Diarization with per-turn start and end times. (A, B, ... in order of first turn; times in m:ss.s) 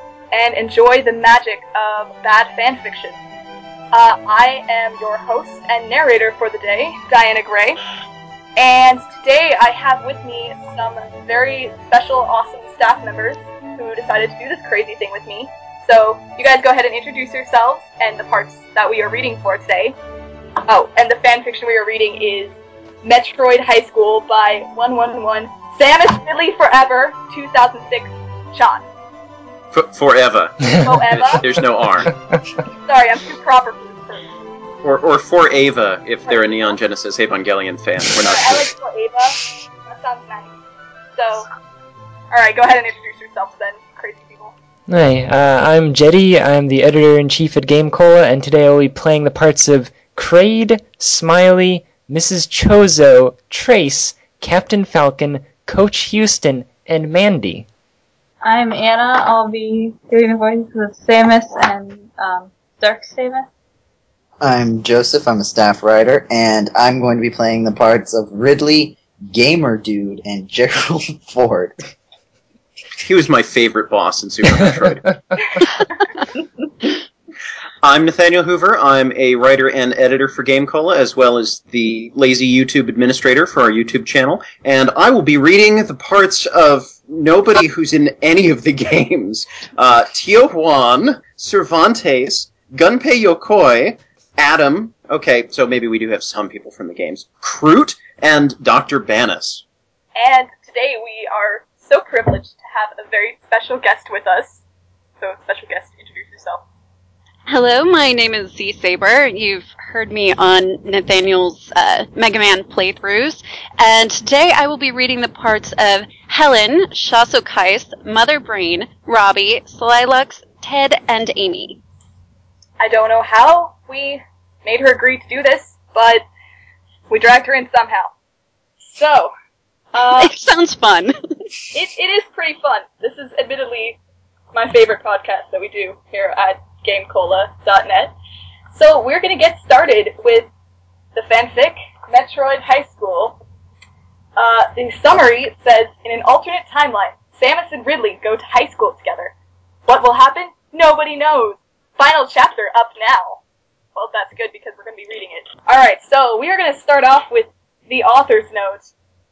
0:00.3-0:03.2 A
0:03.9-0:07.8 A
0:08.6-0:20.0 A
0:20.7-0:28.9 A
0:29.7-0:32.1 B
0:30.6-0:31.0 C
0:30.8-0:31.5 A
0:32.1-0:32.4 C
0:32.9-0:34.3 A
0:34.8-0:38.7 B
0:36.3-0:36.8 A
0:38.2-0:40.5 A
0:41.2-0:41.5 A
0:42.3-0:44.5 A
0:44.9-0:57.7 C
0:58.4-1:03.5 D
1:04.4-1:11.7 E
1:13.0-1:15.1 B
1:14.7-1:15.5 C
1:17.8-1:39.6 B
1:40.2-1:44.6 A
1:45.2-1:46.6 A
1:47.5-2:01.8 F
2:02.8-2:06.2 A
2:07.1-2:08.1 A
2:08.8-2:09.3 A
2:09.9-2:10.4 A
2:10.2-2:11.1 F
2:11.7-2:14.0 A
2:14.5-2:18.1 A
2:18.7-2:20.5 A
2:21.2-2:23.4 A
2:24.4-2:29.3 A
2:29.9-2:33.4 A
2:34.0-2:38.8 A